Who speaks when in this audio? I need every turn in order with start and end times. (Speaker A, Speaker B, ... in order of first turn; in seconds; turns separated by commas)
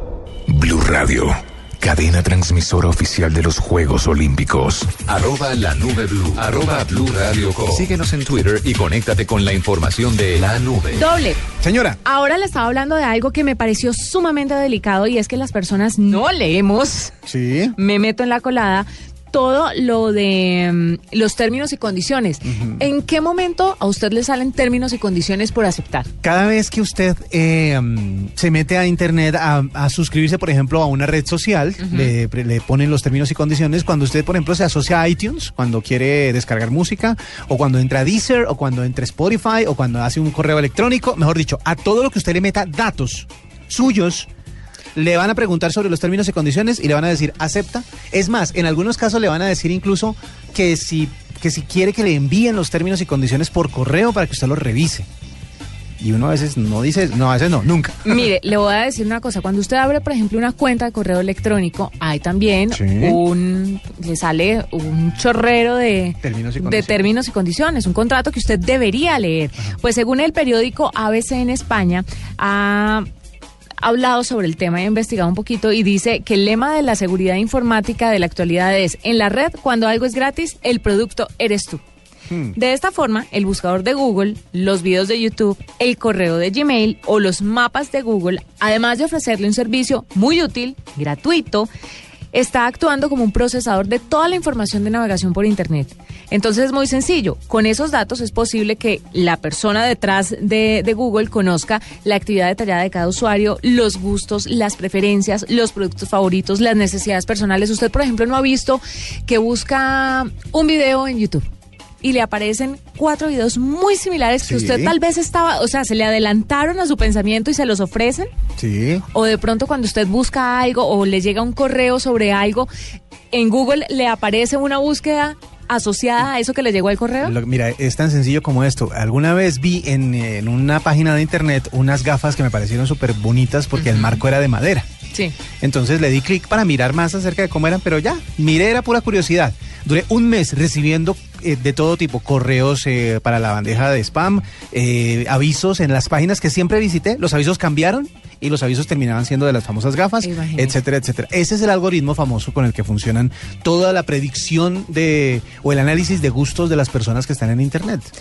Speaker A: 0.5-4.9, Speaker B: 5.1-11.1, Speaker C: 10.9-11.4, Speaker D: 11.6-12.0, Speaker C: 12.1-17.1, Speaker D: 17.3-17.8, Speaker C: 17.8-26.1, Speaker D: 22.4-22.9, Speaker D: 26.2-44.3, Speaker C: 31.8-32.1, Speaker D: 45.0-55.1, Speaker D: 56.0-58.2, Speaker C: 58.0-73.1, Speaker D: 62.7-63.2, Speaker D: 66.2-67.0, Speaker C: 73.8-81.8, Speaker D: 82.3-82.5, Speaker C: 82.5-91.7, Speaker C: 92.3-111.5, Speaker C: 112.0-118.3, Speaker D: 114.4-114.9, Speaker D: 118.6-119.0, Speaker C: 119.1-122.7, Speaker C: 123.3-127.4, Speaker D: 127.2-134.9, Speaker C: 133.8-134.2, Speaker D: 135.6-158.1, Speaker C: 150.2-150.8